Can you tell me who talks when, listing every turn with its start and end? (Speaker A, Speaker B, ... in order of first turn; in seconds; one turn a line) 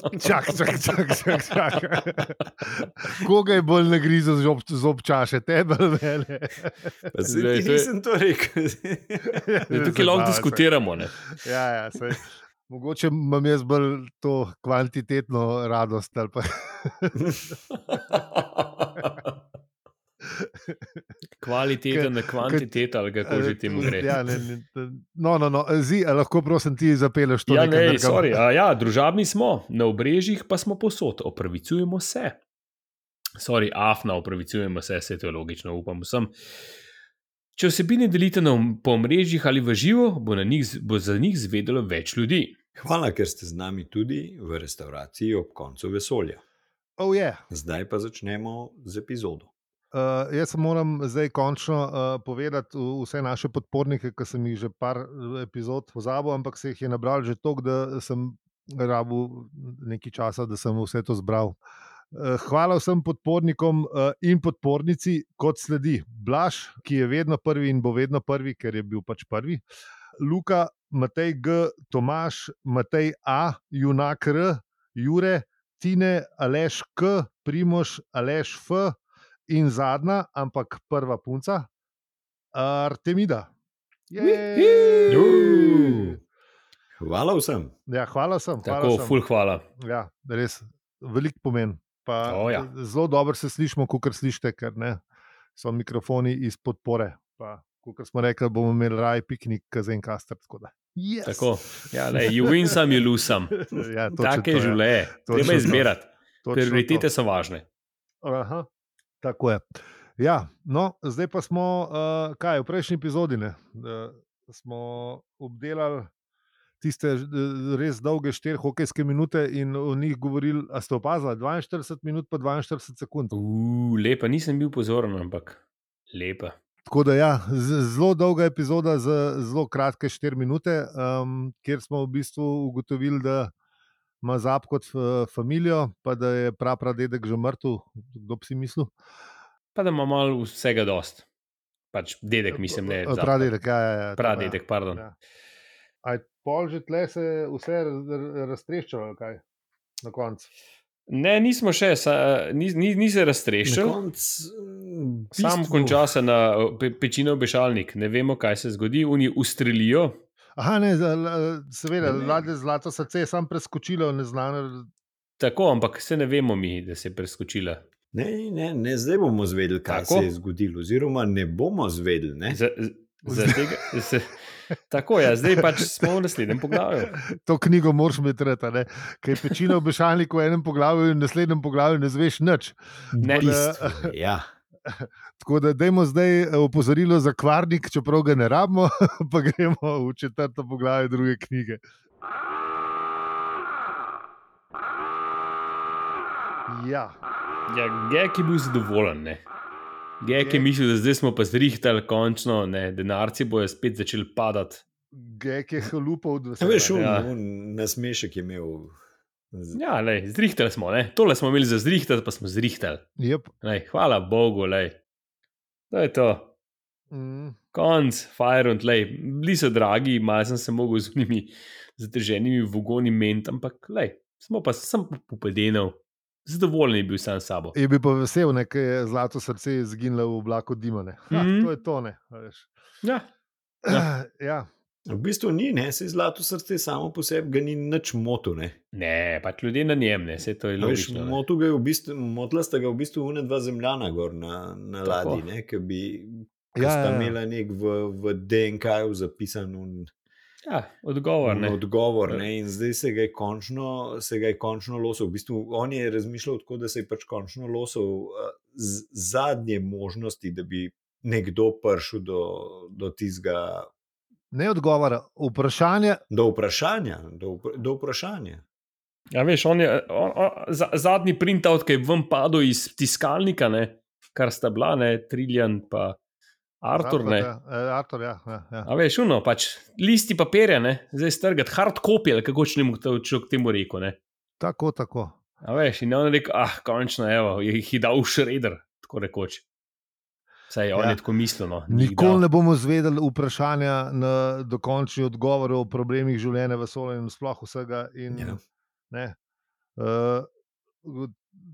Speaker A: 0.1-6.9
Speaker B: 7.1-9.4
Speaker C: 7.3-7.9
Speaker A: 9.2-10.7
Speaker C: 9.7-11.1
Speaker A: 11.2-17.4
Speaker C: 17.9-19.1
Speaker A: 20.2-20.8
Speaker C: 21.4-24.1
Speaker A: 21.9-28.4
Speaker C: 27.5-32.4
Speaker C: 33.4-36.3
Speaker C: 37.6-42.5
Speaker B: 42.8-46.4
Speaker A: 47.0-47.4
Speaker B: 47.5-49.5
Speaker A: 49.9-61.6
Speaker A: 62.1-69.6
Speaker A: 70.2-79.0
Speaker A: 79.5-81.7
Speaker A: 82.5-83.5
Speaker A: 84.1-86.2
Speaker C: 84.2-85.4
Speaker B: 85.1-86.2
Speaker B: 87.0-87.7
Speaker A: 87.9-89.2
Speaker C: 88.6-89.6
Speaker A: 89.8-95.0
Speaker C: 92.2-92.7
Speaker A: 95.5-105.9
Speaker C: 101.2-103.6
Speaker C: 104.2-107.6
Speaker B: 105.3-105.8
Speaker A: 106.4-107.1
Speaker A: 108.2-108.7
Speaker A: 109.2-109.6
Speaker A: 110.2-116.1
Speaker A: 116.8-123.3
Speaker C: 123.3-125.6
Speaker C: 126.1-126.5
Speaker A: 126.9-133.5
Speaker A: 134.2-138.9
Speaker C: 139.8-141.2
Speaker C: 141.9-143.5
Speaker A: 142.5-145.1
Speaker C: 144.2-145.0
Speaker A: 146.0-149.4
Speaker A: 150.0-150.5
Speaker C: 151.1-154.0
Speaker B: 153.6-156.0
Speaker C: 155.3-160.2
Speaker A: 160.6-164.9
Speaker C: 165.4-167.8
Speaker B: 168.1-172.6
Speaker C: 169.9-170.3
Speaker C: 172.5-177.2
Speaker A: 173.3-173.6
Speaker A: 175.5-176.1
Speaker A: 177.2-184.1
Speaker B: 183.2-184.4
Speaker C: 183.2-183.6
Speaker A: 184.9-191.8
Speaker A: 196.7-197.1
Speaker C: 197.7-199.4
Speaker C: 200.2-204.8
Speaker A: 200.3-200.7
Speaker A: 205.1-207.1
Speaker B: 206.6-208.9
Speaker C: 206.9-207.3
Speaker B: 209.5-209.8
Speaker C: 209.7-213.1
Speaker A: 213.2-213.5
Speaker C: 213.6-215.0
Speaker C: 215.9-216.5
Speaker A: 217.1-217.6
Speaker C: 217.7-227.8
Speaker A: 227.7-232.7
Speaker C: 231.3-231.7
Speaker A: 233.9-234.7
Speaker B: 235.1-238.8
Speaker C: 238.9-241.4
Speaker B: 240.8-250.1
Speaker C: 245.0-245.4
Speaker A: 246.8-247.4
Speaker C: 250.7-252.4
Speaker B: 251.4-263.9
Speaker A: 264.5-266.2
Speaker B: 266.3-268.6
Speaker C: 269.3-276.2
Speaker C: 276.8-277.5
Speaker A: 277.0-278.9
Speaker C: 278.9-284.2
Speaker A: 284.6-285.4
Speaker C: 285.6-289.6
Speaker C: 290.7-292.4
Speaker A: 291.9-298.6
Speaker B: 298.3-298.6
Speaker A: 300.0-300.5
Speaker A: 301.0-301.4